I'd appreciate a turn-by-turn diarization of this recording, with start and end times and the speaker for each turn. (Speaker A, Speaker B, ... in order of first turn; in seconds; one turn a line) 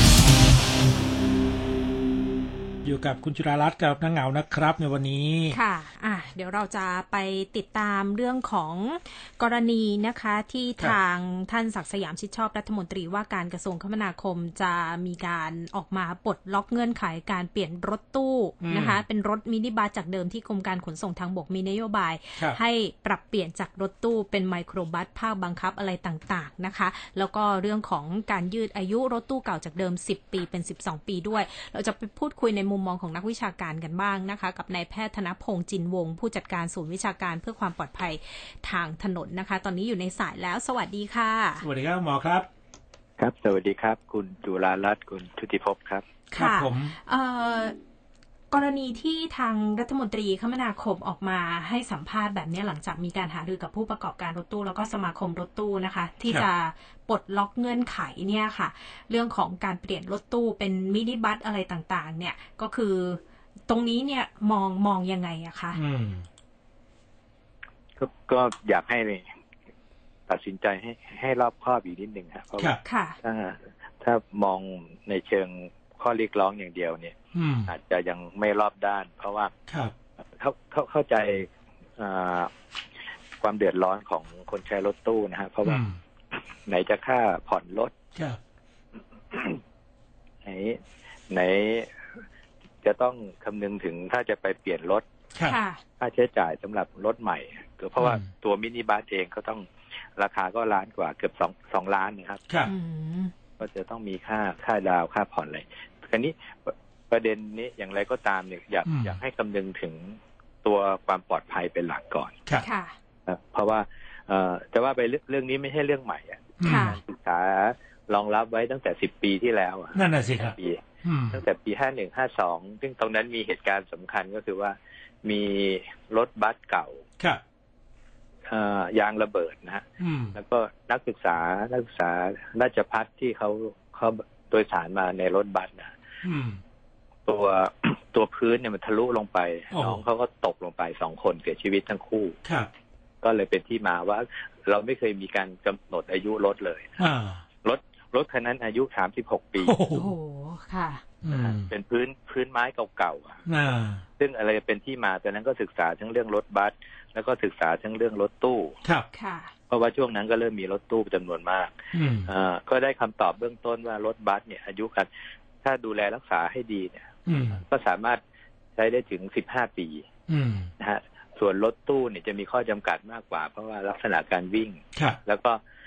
Speaker A: 2.8-5.6
Speaker B: 5.5-41.7
Speaker A: 18.6-19.0
Speaker A: 41.6-42.5
Speaker C: 43.2-46.0
Speaker B: 46.3-47.8
Speaker A: 46.4-46.9
Speaker B: 48.5-65.8
Speaker A: 65.7-66.2
Speaker C: 68.0-69.3
Speaker C: 70.3-77.1
Speaker B: 72.8-73.2
Speaker A: 77.3-77.7
Speaker C: 77.7-79.5
Speaker A: 79.7-79.9
Speaker C: 80.4-82.5
Speaker C: 83.4-85.8
Speaker A: 85.6-86.0
Speaker C: 86.7-87.9
Speaker C: 89.3-89.6
Speaker C: 90.4-91.9
Speaker C: 92.8-95.0
Speaker B: 95.5-95.8
Speaker C: 96.0-102.4
Speaker A: 98.0-98.3
Speaker B: 102.7-103.3
Speaker C: 103.6-112.3
Speaker A: 108.9-109.2
Speaker B: 112.6-112.9
Speaker C: 113.3-127.0
Speaker A: 116.6-117.0
Speaker B: 116.6-117.0
Speaker A: 119.9-121.4
Speaker C: 128.5-135.9
Speaker A: 130.0-130.4
Speaker A: 136.2-136.6
Speaker C: 137.3-142.4
Speaker A: 139.7-140.0
Speaker A: 142.4-142.7
Speaker C: 143.2-147.0
Speaker A: 147.0-147.4
Speaker C: 147.6-149.8
Speaker A: 149.6-150.1
Speaker B: 149.9-151.0
Speaker A: 151.2-151.7
Speaker C: 151.3-153.4
Speaker A: 153.5-154.0
Speaker C: 154.2-158.8
Speaker B: 159.1-159.5
Speaker C: 159.7-165.1
Speaker A: 161.9-162.3
Speaker C: 165.6-168.2
Speaker A: 167.3-167.6
Speaker C: 168.8-170.1
Speaker A: 170.3-170.7
Speaker C: 170.8-175.6